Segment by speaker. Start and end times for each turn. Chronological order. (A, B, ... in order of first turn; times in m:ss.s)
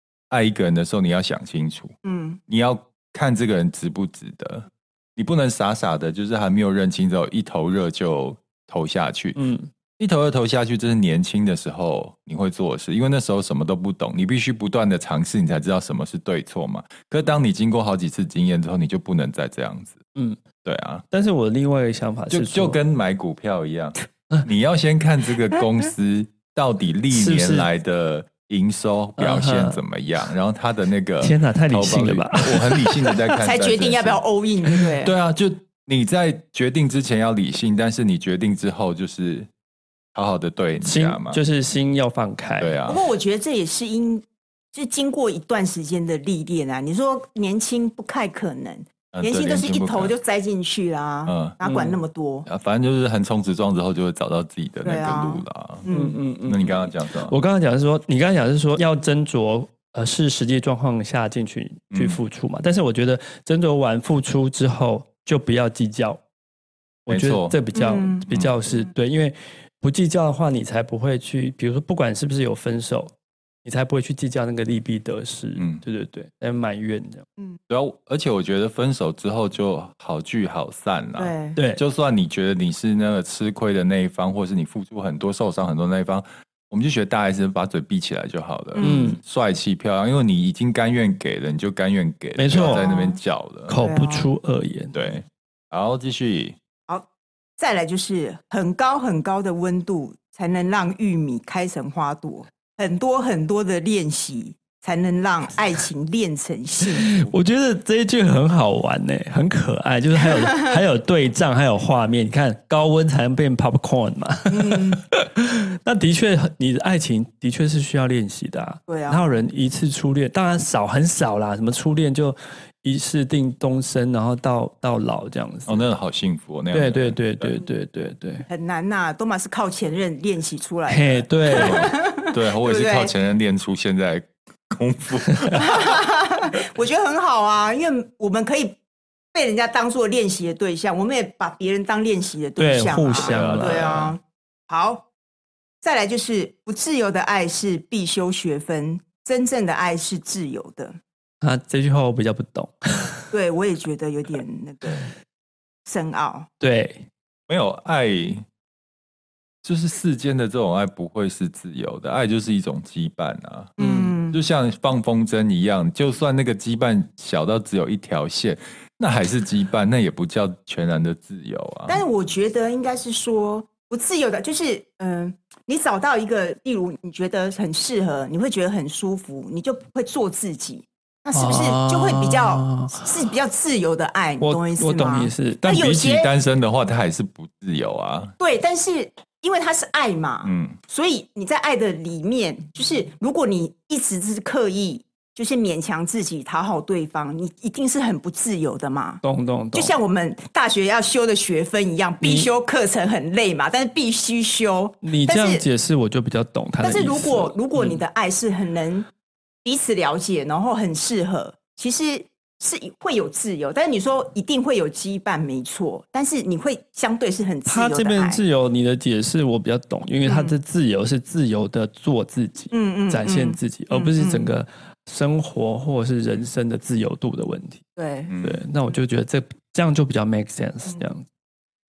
0:00.3-0:01.9 A
0:02.0-0:02.4 B
0:02.5-0:09.4 A
0:09.4-0:09.7 C
0:10.0-0:20.0 A
0:20.1-0:20.4 C
0:20.6-0:21.0 A
0:21.1-0:22.8 C
0:22.3-0:39.5 A
0:27.1-0:27.7 C
0:29.2-0:29.8 C
0:31.2-0:33.1 C
0:33.4-0:35.1 B
0:40.1-0:41.4 A
0:40.8-0:42.8 C
0:42.6-0:43.0 A
0:42.9-0:52.5 B
0:49.1-0:50.1 A
0:51.2-0:51.6 A
0:51.6-0:52.0 C
0:52.5-0:55.8 A
0:54.8-0:56.2 B
0:55.9-1:06.2 C
0:56.4-0:57.3 A
1:01.9-1:02.2 A
1:07.0-1:13.1 C
1:07.1-1:07.6 A
1:07.7-1:08.2 B
1:08.3-1:08.5 A
1:13.6-1:17.2 C
1:15.6-1:15.8 A
1:17.7-1:33.7 A
1:21.2-1:21.6 B
1:21.6-1:21.8 C
1:28.8-1:29.2 B
1:28.8-1:29.2 C
1:32.4-1:32.9 C
1:32.5-1:33.2 B
1:33.7-1:35.0 C
1:33.8-1:34.3 B
1:34.9-1:36.6 A
1:37.6-1:47.1 B
1:46.8-2:05.8 C
1:54.5-1:55.0 B
1:58.9-1:59.3 B
2:05.7-2:07.5 A
2:06.7-2:08.4 C
2:08.5-2:13.1 B
2:10.9-2:11.9 C
2:11.5-2:15.9 A
2:15.3-2:15.6 C
2:15.6-2:18.8 B
2:19.3-2:25.0 B
2:22.6-2:23.8 C
2:23.2-2:24.1 A
2:25.8-2:31.0 B
2:31.4-2:33.2 C
2:33.3-2:35.1 B
2:35.8-2:36.5 B
2:36.6-2:37.1 C
2:37.5-2:38.4 A
2:39.6-2:43.7 A
2:43.8-2:44.1 C
2:43.8-2:44.4 B
2:44.3-2:52.0 A
2:51.9-3:06.3 B
3:01.3-3:03.1 C
3:04.4-3:05.6 C
3:05.6-3:08.3 A
3:08.4-3:19.2 B
3:10.4-3:10.8 A
3:19.2-3:19.9 C
3:19.7-3:25.6 B
3:22.2-3:22.5 C
3:25.0-3:28.0 C
3:26.8-3:29.1 B
3:29.6-3:38.4 B
3:37.7-3:47.8 C
3:40.2-3:40.6 B
3:42.7-3:44.5 B
3:48.0-3:48.3 B
3:48.3-3:48.6 A
3:48.4-3:51.2 C